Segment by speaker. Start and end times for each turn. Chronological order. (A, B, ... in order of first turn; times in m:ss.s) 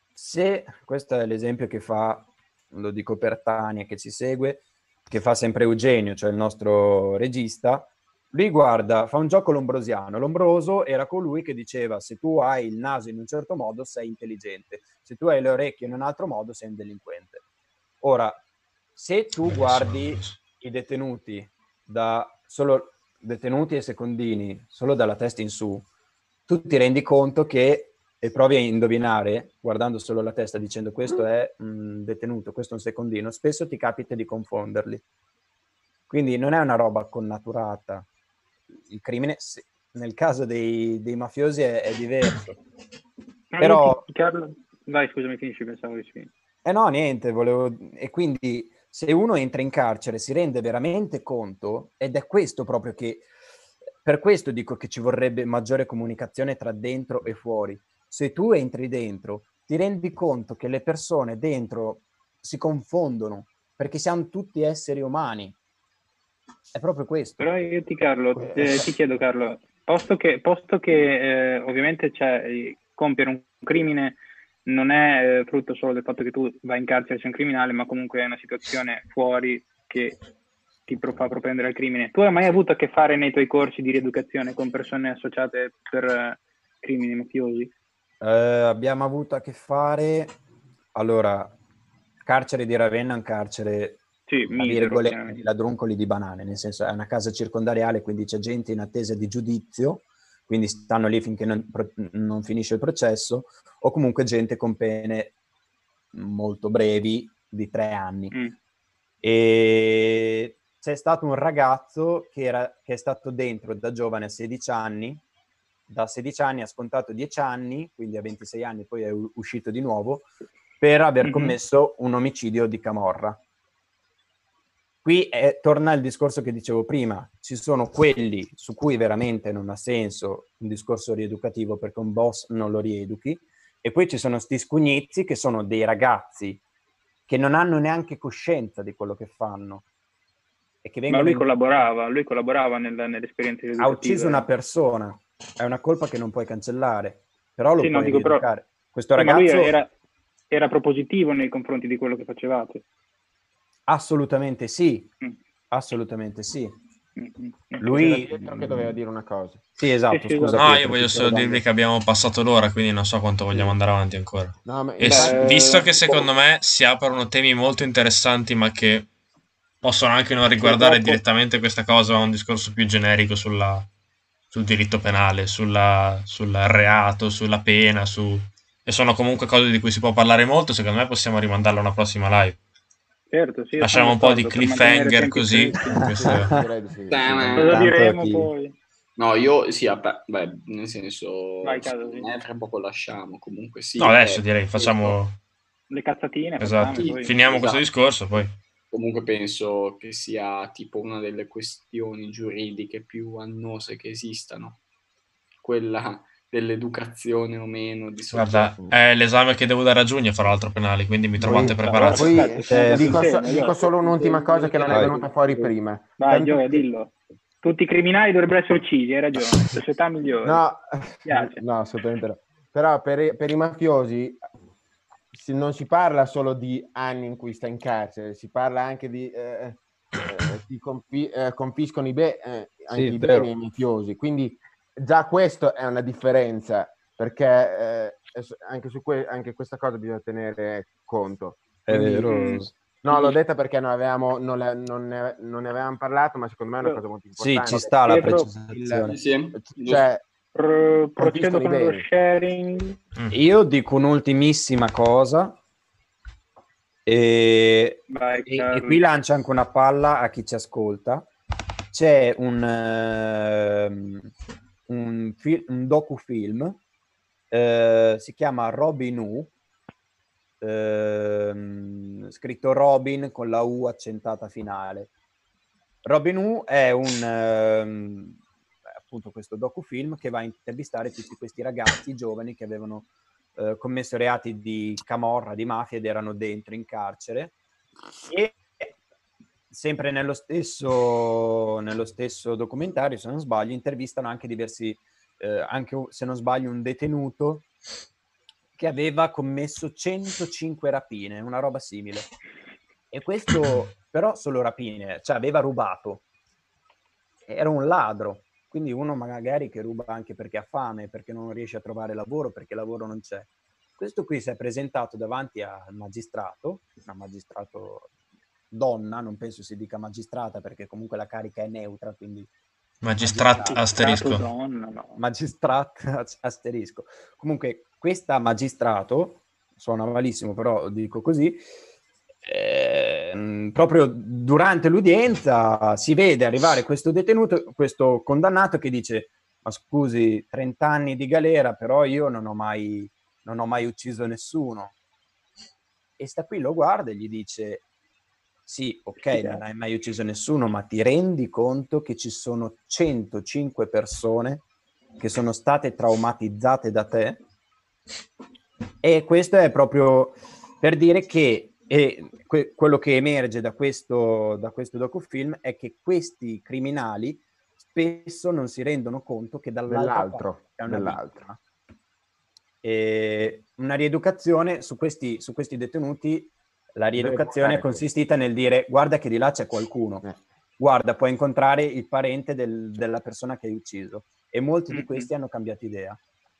0:00.1-0:17.4 A
0:18.0-0:18.4 A
0:19.0-0:25.8 A
0:19.4-0:20.4 B
0:26.5-0:35.0 A
0:36.1-0:38.0 A
0:38.8-0:42.6 A
0:43.5-0:46.3 C
0:43.6-0:44.0 A
0:46.6-0:53.2 A
0:54.0-1:05.6 A
1:06.7-1:07.5 A
1:07.4-1:20.2 C
1:08.4-1:08.8 D
1:20.9-1:27.7 C
1:28.2-1:30.3 A
1:30.9-1:31.5 A
1:32.2-1:45.3 A
1:34.3-1:35.4 C
1:46.1-1:48.3 A
1:49.2-1:55.2 A
1:55.9-2:00.3 A
2:00.8-2:03.4 A
2:01.2-2:01.6 C
2:05.0-2:16.6 A
2:17.3-2:19.8 A
2:20.8-2:21.5 A
2:21.1-2:24.4 C
2:23.8-2:29.7 A
2:27.8-2:28.4 C
2:29.2-2:29.9 C
2:30.5-2:32.8 C
2:33.9-2:35.1 A
2:35.7-2:36.8 A
2:37.2-2:38.1 C
2:37.8-2:39.0 A
2:37.9-2:39.6 D
2:39.8-2:41.6 A
2:40.1-2:40.7 C
2:40.5-2:49.1 B
2:43.5-2:43.8 A
2:44.6-2:45.7 D
2:45.0-2:46.3 C
2:49.8-2:53.9 B
2:50.6-2:51.2 C
2:54.5-3:02.6 B
3:03.3-3:06.0 C
3:03.8-3:06.5 B
3:06.0-3:06.6 A
3:06.1-3:07.7 D
3:07.1-3:07.8 E
3:07.6-3:08.5 A
3:07.6-3:08.7 C
3:09.2-3:15.2 E
3:11.6-3:12.3 C
3:14.0-3:15.4 B
3:15.9-3:17.3 C
3:16.6-3:18.5 B
3:16.9-3:17.8 E
3:18.9-3:24.8 E
3:25.6-3:28.8 E
3:28.3-3:32.6 B
3:31.4-3:33.3 A
3:31.4-3:36.8 D
3:31.8-3:35.6 C
3:34.9-3:35.2 A
3:36.2-3:40.6 C
3:40.4-3:44.4 D
3:41.2-3:41.6 C
3:45.3-4:02.3 D
3:52.9-3:53.5 A
4:01.8-4:02.7 A
4:02.2-4:02.6 C
4:03.0-4:10.2 D
4:07.4-4:09.2 A
4:08.0-4:08.5 C
4:09.1-4:10.0 E
4:10.5-4:13.0 C
4:11.2-4:12.0 D
4:13.3-4:15.6 A
4:17.0-4:21.3 A
4:18.1-4:19.0 C
4:21.9-4:24.3 A
4:24.9-4:26.8 A
4:27.5-4:29.5 A
4:30.6-4:35.1 A
4:36.0-4:38.4 A
4:39.0-4:47.5 A
4:48.3-4:48.9 A
4:49.7-4:57.7 A
4:58.8-5:02.3 A
5:03.1-5:06.2 A
5:07.5-5:18.1 A
5:18.7-5:22.5 A
5:23.0-5:24.4 B
5:23.2-5:23.8 A
5:23.7-5:25.2 C
5:25.2-5:31.6 A
5:32.4-5:44.9 A
5:46.2-5:47.8 A
5:48.7-5:54.6 A
5:49.3-5:49.6 C
5:55.2-5:57.4 A
5:59.0-6:11.6 A
6:09.8-6:11.4 D
6:12.8-6:20.2 A
6:17.2-6:18.0 D
6:20.8-6:26.2 A
6:24.9-6:25.3 C